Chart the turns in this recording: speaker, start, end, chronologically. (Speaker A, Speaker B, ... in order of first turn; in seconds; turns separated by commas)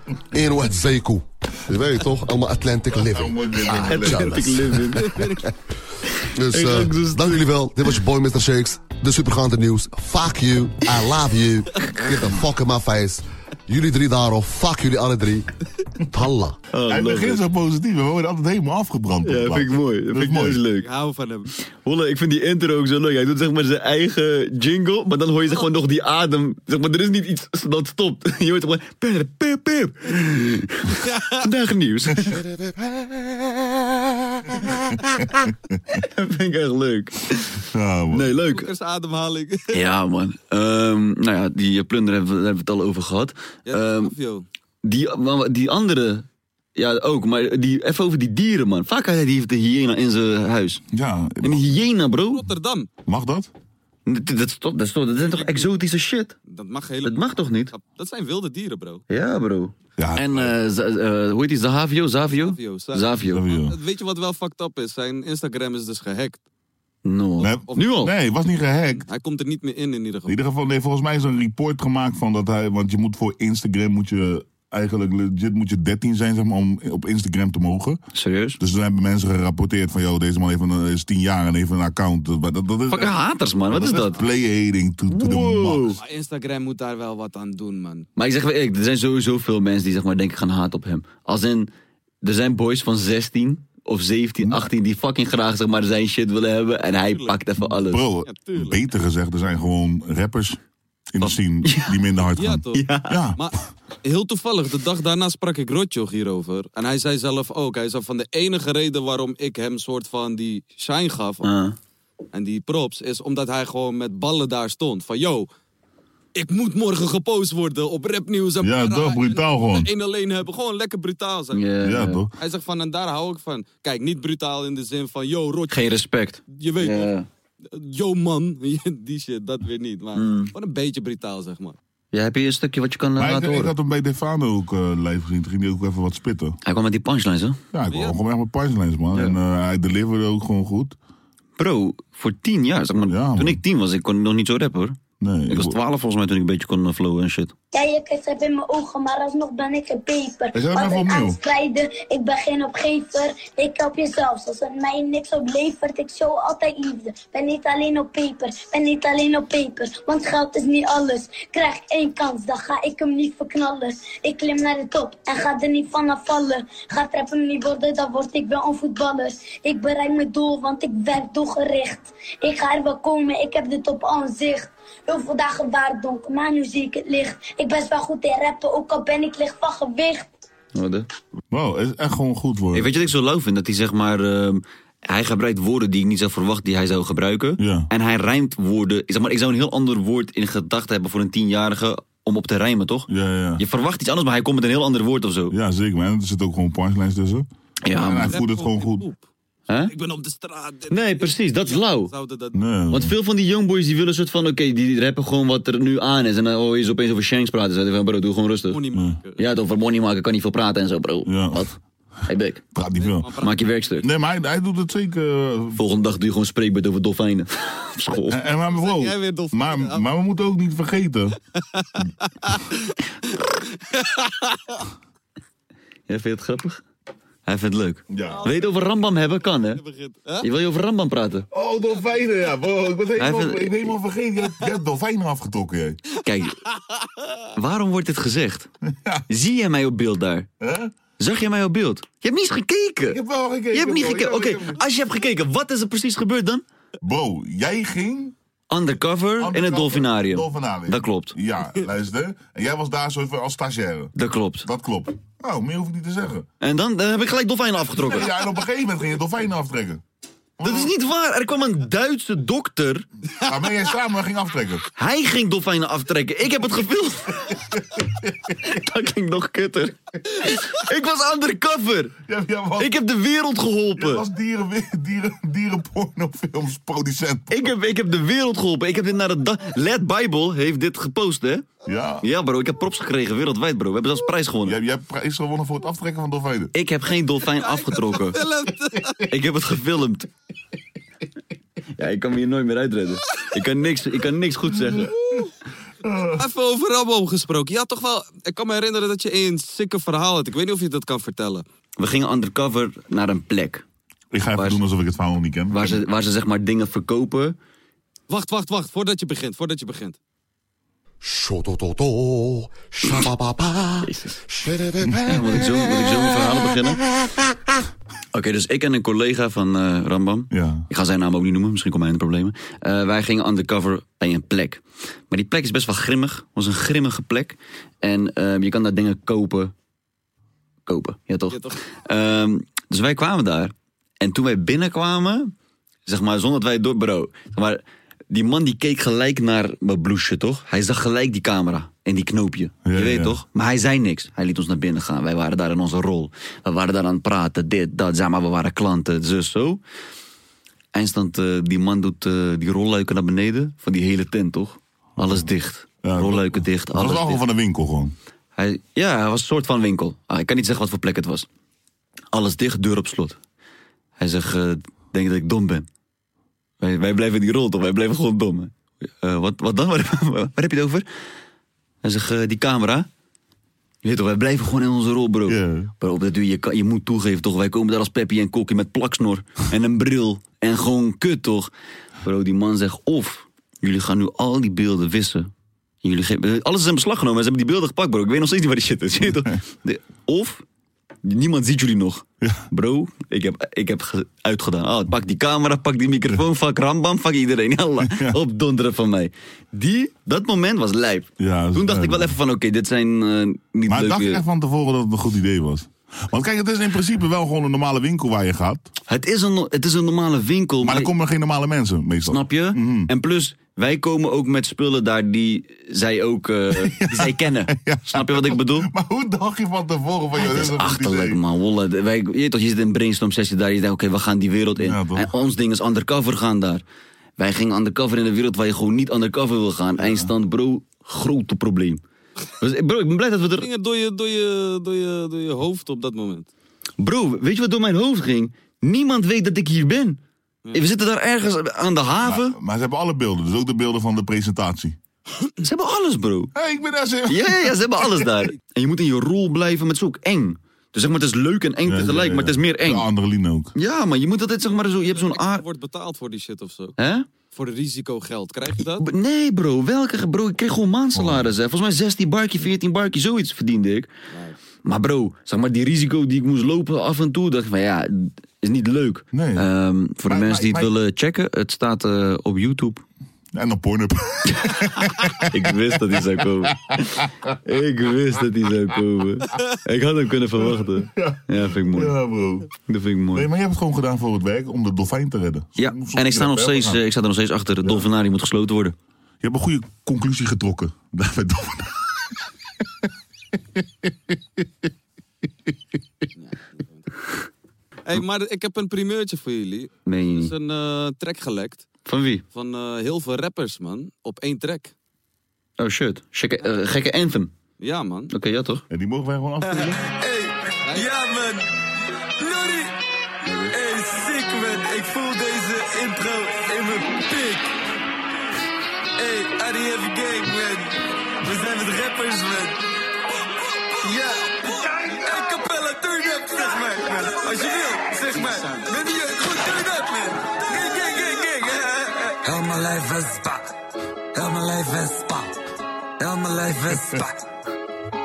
Speaker A: 0.3-4.8, Speaker B: 3.0-4.3, Speaker C: 3.7-5.2, Speaker D: 5.0-5.4, Speaker C: 6.2-7.4, Speaker A: 6.3-15.5, Speaker A: 16.1-16.6, Speaker C: 16.7-17.5, Speaker B: 16.9-20.6, Speaker C: 19.2-20.9, Speaker D: 20.8-21.5, Speaker C: 21.8-32.4, Speaker D: 31.0-31.4, Speaker B: 34.9-35.8, Speaker C: 36.0-38.7, Speaker B: 37.7-38.3, Speaker D: 38.5-39.8, Speaker C: 39.7-44.1, Speaker D: 43.7-44.5, Speaker C: 44.8-50.8, Speaker B: 50.9-51.7, Speaker C: 51.4-52.4, Speaker D: 52.3-52.9, Speaker B: 53.1-53.5, Speaker C: 54.1-56.4, Speaker D: 55.3-55.6, Speaker D: 56.5-59.0, Speaker C: 57.0-57.7, Speaker C: 59.1-63.5, Speaker B: 60.0-60.5, Speaker D: 62.3-66.4, Speaker B: 63.2-63.8, Speaker C: 67.0-68.1, Speaker B: 67.4-69.1, Speaker D: 69.0-70.4, Speaker B: 70.3-78.0, Speaker C: 78.1-78.6, Speaker B: 78.6-83.2, Speaker C: 82.9-84.2, Speaker B: 83.7-86.0, Speaker C: 85.1-86.0, Speaker D: 86.0-88.1, Speaker C: 88.2-91.7, Speaker C: 92.2-98.0, Speaker D: 96.8-97.4, Speaker B: 97.7-100.6, Speaker D: 98.3-98.8, Speaker B: 101.1-103.4, Speaker C: 101.2-102.0, Speaker D: 102.3-102.9, Speaker C: 102.7-103.2, Speaker D: 103.4-111.5, Speaker C: 111.4-111.8, Speaker D: 112.3-115.5, Speaker D: 116.3-121.6, Speaker B: 118.6-119.9, Speaker C: 121.5-122.2, Speaker B: 121.8-122.3, Speaker D: 122.4-126.0, Speaker C: 125.7-127.3, Speaker D: 126.5-127.2, Speaker D: 127.7-131.8, Speaker C: 130.2-130.5, Speaker C: 132.1-133.7, Speaker B: 133.2-136.6, Speaker C: 136.7-137.6, Speaker B: 137.7-141.0, Speaker D: 137.9-138.2, Speaker C: 141.6-147.5, Speaker B: 143.1-143.6, Speaker B: 145.2-145.8, Speaker E: 147.7-180.3, Speaker B: 150.5-151.4, Speaker C: 180.7-181.1, Speaker B: 181.5-182.9, Speaker C: 182.7-195.6, Speaker B: 187.6-187.9, Speaker B: 193.1-193.6, Speaker B: 195.5-199.1, Speaker C: 197.8-198.4, Speaker D: 198.3-199.3, Speaker D: 199.9-202.6, Speaker C: 200.9-202.1, Speaker B: 202.5-203.1, Speaker C: 202.9-208.8, Speaker D: 208.7-209.5, Speaker B: 208.9-209.2, Speaker C: 209.4-212.6, Speaker B: 211.3-211.7, Speaker B: 212.8-213.4, Speaker D: 213.0-213.9, Speaker C: 213.4-214.1, Speaker B: 214.0-215.8, Speaker C: 215.8-218.4, Speaker B: 218.3-221.4, Speaker D: 218.7-220.1, Speaker D: 221.7-222.9, Speaker D: 223.8-224.8, Speaker C: 226.1-226.8, Speaker C: 227.5-229.8, Speaker B: 228.1-228.5, Speaker D: 228.3-230.5, Speaker C: 230.4-231.5, Speaker B: 231.5-236.0, Speaker C: 233.2-234.0, Speaker C: 236.2-236.6, Speaker D: 236.7-237.3, Speaker C: 237.6-238.7, Speaker B: 238.9-239.2, Speaker C: 239.3-240.5, Speaker B: 240.6-240.9, Speaker C: 241.2-243.2, Speaker B: 243.1-244.8, Speaker C: 243.7-246.6, Speaker B: 247.0-248.3, Speaker C: 248.7-251.4, Speaker B: 249.4-254.1, Speaker C: 254.2-254.7, Speaker B: 254.7-256.5, Speaker C: 256.6-258.3, Speaker B: 258.0-260.0, Speaker B: 260.6-260.9, Speaker C: 260.6-263.1, Speaker B: 263.4-264.8, Speaker C: 265.0-267.4, Speaker B: 267.5-268.5, Speaker C: 268.6-272.1, Speaker B: 272.2-273.0, Speaker C: 272.8-274.2, Speaker B: 274.0-277.7, Speaker C: 277.5-281.7, Speaker B: 281.9-282.2, Speaker C: 282.2-284.8, Speaker B: 284.6-286.7, Speaker C: 286.7-288.4, Speaker D: 287.5-289.2, Speaker C: 289.3-290.3, Speaker C: 292.0-295.1, Speaker B: 294.9-295.5, Speaker B: 296.0-296.4, Speaker D: 296.4-301.6, Speaker C: 302.0-303.9, Speaker B: 304.3-306.0, Speaker C: 304.6-304.8, Speaker C: 305.7-307.6, Speaker D: 308.3-310.2, Speaker A: 311.2-315.9, Speaker C: 314.0-314.4, Speaker C: 315.2-317.0, Speaker C: 318.3-329.7, Speaker B: 320.5-320.9, Speaker C: 330.9-335.5, Speaker D: 331.5-331.8, Speaker C: 336.1-349.8, Speaker B: 342.9-343.4, Speaker C: 350.9-357.4, Speaker B: 355.2-355.5, Speaker B: 356.0-358.1, Speaker C: 358.6-361.5, Speaker C: 362.3-363.4, Speaker C: 364.2-365.9, Speaker C: 366.8-371.1, Speaker C: 372.0-373.1, Speaker C: 374.0-381.7, Speaker B: 375.5-375.9, Speaker C: 382.2-385.5, Speaker C: 386.0-390.6, Speaker C: 391.2-404.4, Speaker B: 398.0-398.4, Speaker B: 401.4-402.4, Speaker B: 403.9-408.9, Speaker C: 409.1-411.1, Speaker B: 410.8-413.1, Speaker C: 412.2-418.9, Speaker B: 416.8-421.4, Speaker C: 420.4-426.8, Speaker B: 424.8-425.3, Speaker C: 427.4-432.0, Speaker B: 430.0-430.3, Speaker C: 432.6-433.7, Speaker D: 433.6-436.5, Speaker C: 437.0-440.2, Speaker C: 440.7-442.6, Speaker B: 442.2-445.0, Speaker C: 445.6-446.5, Speaker B: 446.6-448.3, Speaker C: 447.3-453.1, Speaker B: 451.9-453.7, Speaker C: 453.7-455.6, Speaker D: 454.7-457.0, Speaker C: 457.0-457.3, Speaker D: 457.5-459.1, Speaker C: 458.9-464.1, Speaker B: 461.1-461.5, Speaker C: 464.9-473.0, Speaker B: 469.3-469.7, Speaker B: 470.2-470.9, Speaker B: 473.5-476.3, Speaker C: 474.5-474.8, Speaker C: 475.4-482.1, Speaker B: 477.1-477.6, Speaker B: 480.8-482.7, Speaker C: 482.9-483.5, Speaker B: 483.3-487.0, Speaker C: 485.8-488.9, Speaker B: 489.4-492.1, Speaker D: 496.4-497.1, Speaker D: 498.1-501.9, Speaker C: 500.1-500.5, Speaker C: 502.1-502.4, Speaker D: 502.5-504.9, Speaker C: 505.8-507.5, Speaker D: 507.8-508.3, Speaker C: 508.3-508.8, Speaker B: 508.9-510.0, Speaker F: 510.1-511.7, Speaker D: 510.8-511.1, Speaker F: 512.4-512.9, Speaker C: 513.5-513.7, Speaker F: 513.7-517.7, Speaker F: 519.2-522.8, Speaker F: 524.0-532.4, Speaker G: 532.4-533.6, Speaker G: 534.3-535.5, Speaker G: 536.2-537.3